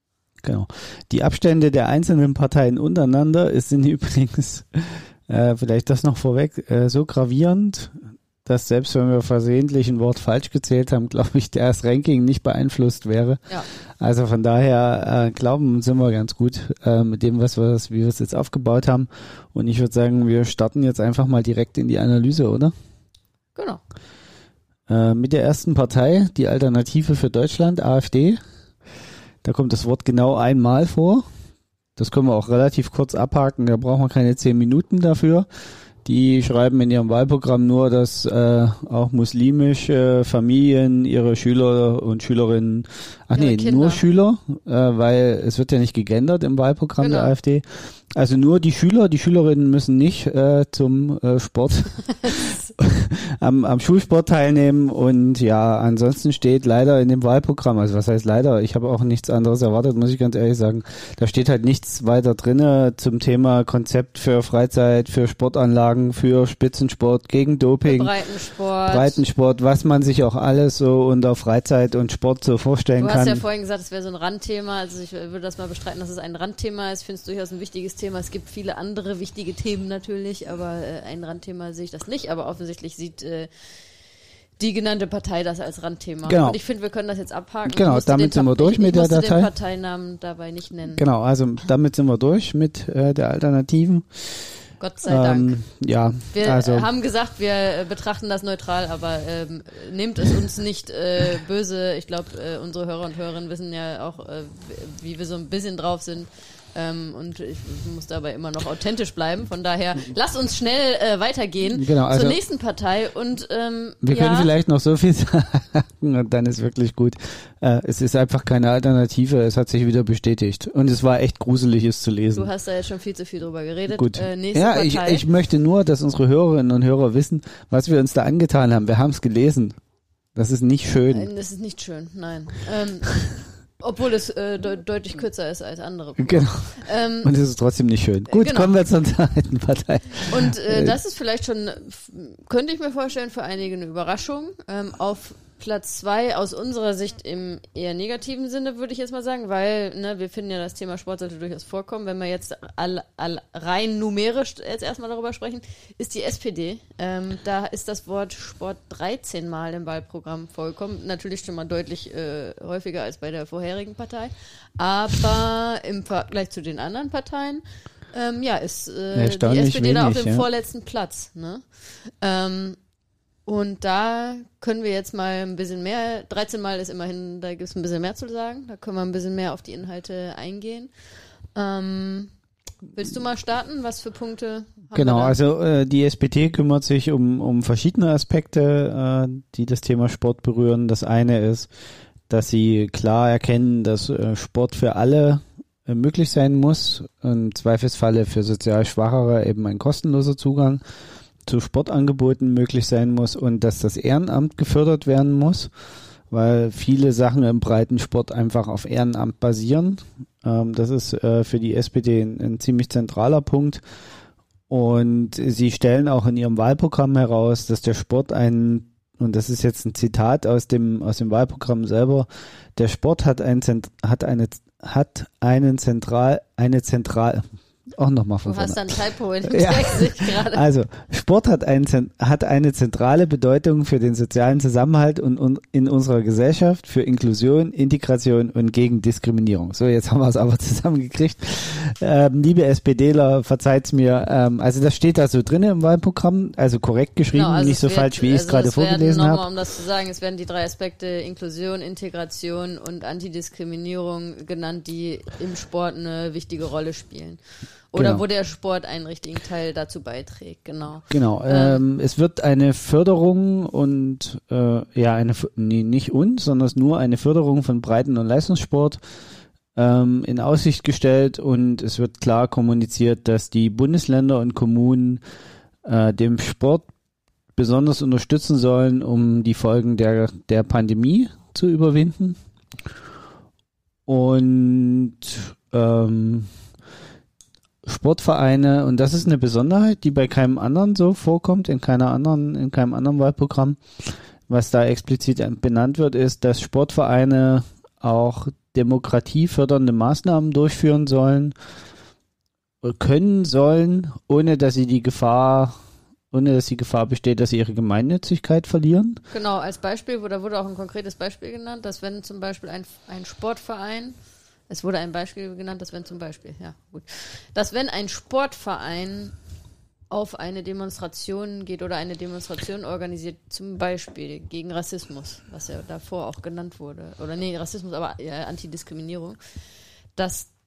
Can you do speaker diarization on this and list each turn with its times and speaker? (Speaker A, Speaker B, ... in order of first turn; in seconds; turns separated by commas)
Speaker A: 0.4-13.4, Speaker A: 14.0-22.7, Speaker B: 23.6-23.8, Speaker A: 24.9-28.4, Speaker A: 29.4-31.2, Speaker A: 32.0-35.5, Speaker A: 36.0-68.1, Speaker B: 43.4-44.0, Speaker B: 47.0-47.4, Speaker B: 67.8-69.2, Speaker A: 68.9-73.4, Speaker B: 73.0-83.5, Speaker B: 84.6-91.0, Speaker A: 86.3-86.6, Speaker A: 87.7-89.5, Speaker A: 90.9-94.3, Speaker B: 94.8-95.5, Speaker A: 95.0-96.9, Speaker B: 96.3-114.5, Speaker A: 111.7-112.4, Speaker A: 114.0-122.5, Speaker B: 122.3-125.3, Speaker A: 123.9-129.8, Speaker A: 130.3-131.3, Speaker B: 131.1-137.3, Speaker A: 136.2-141.0, Speaker B: 138.3-138.7, Speaker B: 140.3-172.8, Speaker A: 169.1-170.5, Speaker B: 173.5-180.9, Speaker B: 181.6-182.3, Speaker B: 182.9-185.4, Speaker A: 184.9-191.7, Speaker A: 192.3-200.8, Speaker A: 201.5-205.7, Speaker A: 206.3-213.8, Speaker A: 214.7-227.4, Speaker A: 228.0-249.4, Speaker B: 228.4-230.6, Speaker B: 247.3-257.4, Speaker B: 257.9-261.8, Speaker A: 257.9-258.2, Speaker A: 261.1-269.0, Speaker A: 269.8-275.2, Speaker A: 275.9-276.9, Speaker A: 277.6-282.4, Speaker A: 284.1-286.5, Speaker A: 287.9-293.8, Speaker A: 294.5-301.5, Speaker A: 302.8-305.8, Speaker A: 306.3-309.2, Speaker B: 309.3-314.2, Speaker B: 314.7-319.4, Speaker B: 320.1-329.4, Speaker B: 330.2-330.5